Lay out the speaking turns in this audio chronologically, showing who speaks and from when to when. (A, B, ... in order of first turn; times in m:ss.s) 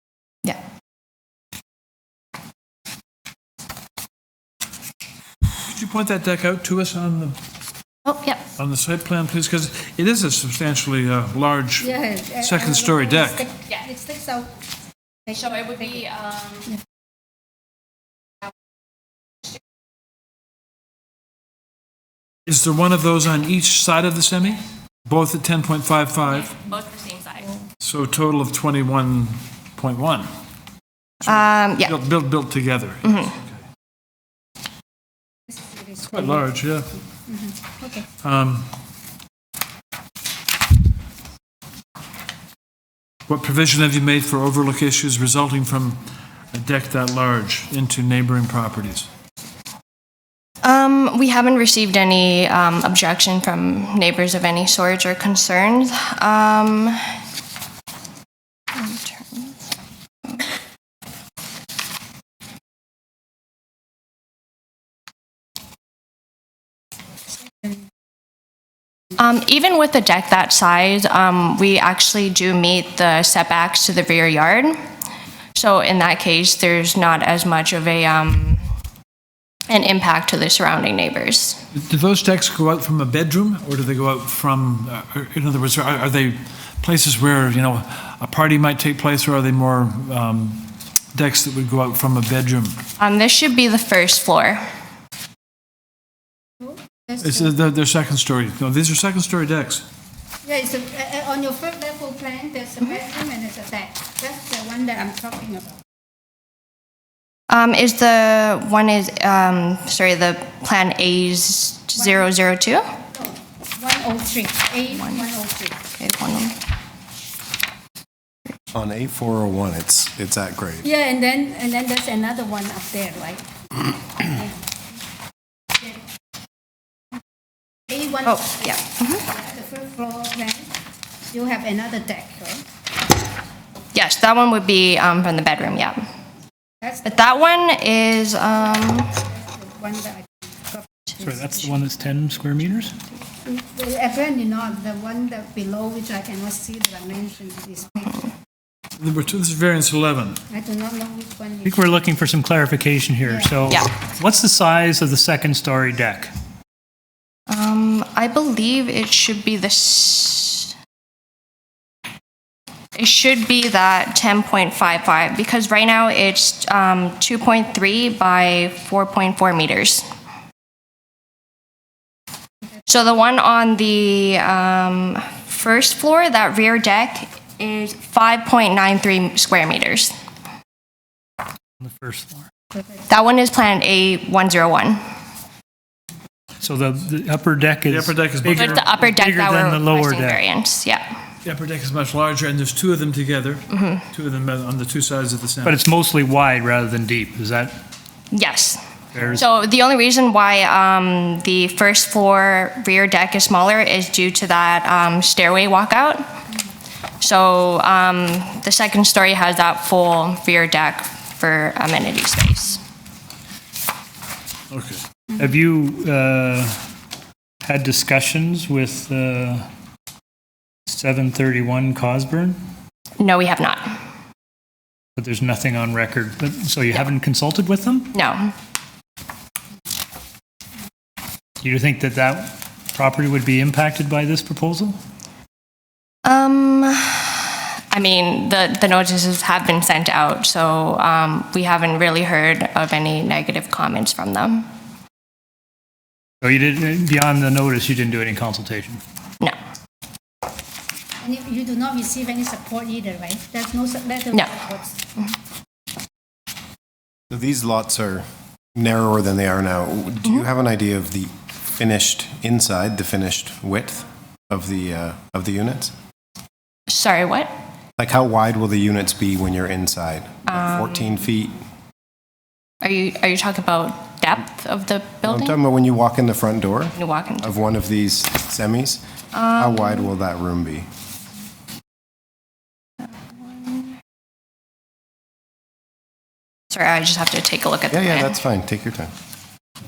0:05.6-0:07.4 A
0:08.0-0:08.4 B
0:08.6-0:13.5 A
0:11.8-0:14.6 C
0:15.3-0:15.9 C
0:15.4-0:16.7 B
0:22.4-0:26.6 A
0:26.5-0:27.5 B
0:27.8-0:30.3 A
0:31.2-0:31.9 B
0:31.2-0:33.6 A
0:33.0-0:33.3 B
0:35.5-0:36.4 C
0:36.1-0:36.9 A
0:37.3-0:38.1 C
0:38.2-0:38.7 A
0:43.3-0:49.1 A
0:50.6-0:57.0 B
0:58.7-0:59.6 B
1:09.2-1:14.8 B
1:15.6-1:18.6 B
1:19.7-1:21.6 B
1:21.7-1:32.8 A
1:33.0-1:34.6 B
1:36.6-1:37.2 C
1:37.2-1:39.8 A
1:40.4-1:45.8 C
1:47.5-1:52.8 B
1:53.1-1:55.8 C
1:56.0-1:56.6 B
1:58.7-2:00.9 D
2:00.8-2:03.5 C
2:04.2-2:04.5 C
2:07.9-2:10.7 C
2:08.2-2:09.2 B
2:11.3-2:12.6 C
2:13.9-2:16.0 B
2:16.8-2:17.4 C
2:17.0-2:19.1 B
2:18.9-2:20.9 C
2:21.2-2:23.0 E
2:23.4-2:28.3 C
2:29.0-2:30.4 A
2:30.5-2:31.9 C
2:31.6-2:36.3 E
2:33.3-2:33.5 C
2:37.5-2:40.7 B
2:42.9-2:50.0 B
2:52.9-3:00.1 B
3:01.8-3:02.5 E
3:03.1-3:05.0 B
3:06.6-3:10.4 E
3:07.9-3:08.8 A
3:08.5-3:11.1 B
3:11.4-3:15.8 A
3:13.7-3:14.0 B
3:15.6-3:17.7 E
3:18.3-3:18.8 B
3:19.1-3:19.4 E
3:19.3-3:26.2 B
3:27.2-3:32.8 B
3:34.7-3:35.0 A
3:35.4-3:36.8 E
3:37.6-3:39.6 E
3:40.9-3:42.6 E
3:43.2-3:44.0 B
3:45.2-3:48.1 E
3:48.1-3:48.5 B
3:51.6-3:55.0 E
3:56.2-4:04.6 B
4:06.4-4:09.0 E
4:11.2-4:15.0 C
4:17.3-4:25.9 D
4:26.9-4:27.5 B
4:28.0-4:31.5 D
4:30.5-4:30.9 B
4:32.8-4:35.6 B
4:35.2-4:39.0 D
4:37.0-4:37.6 B
4:39.3-4:40.1 B
4:39.6-4:40.9 D
4:43.2-4:43.8 B
4:46.7-4:48.4 B
4:47.9-4:49.1 D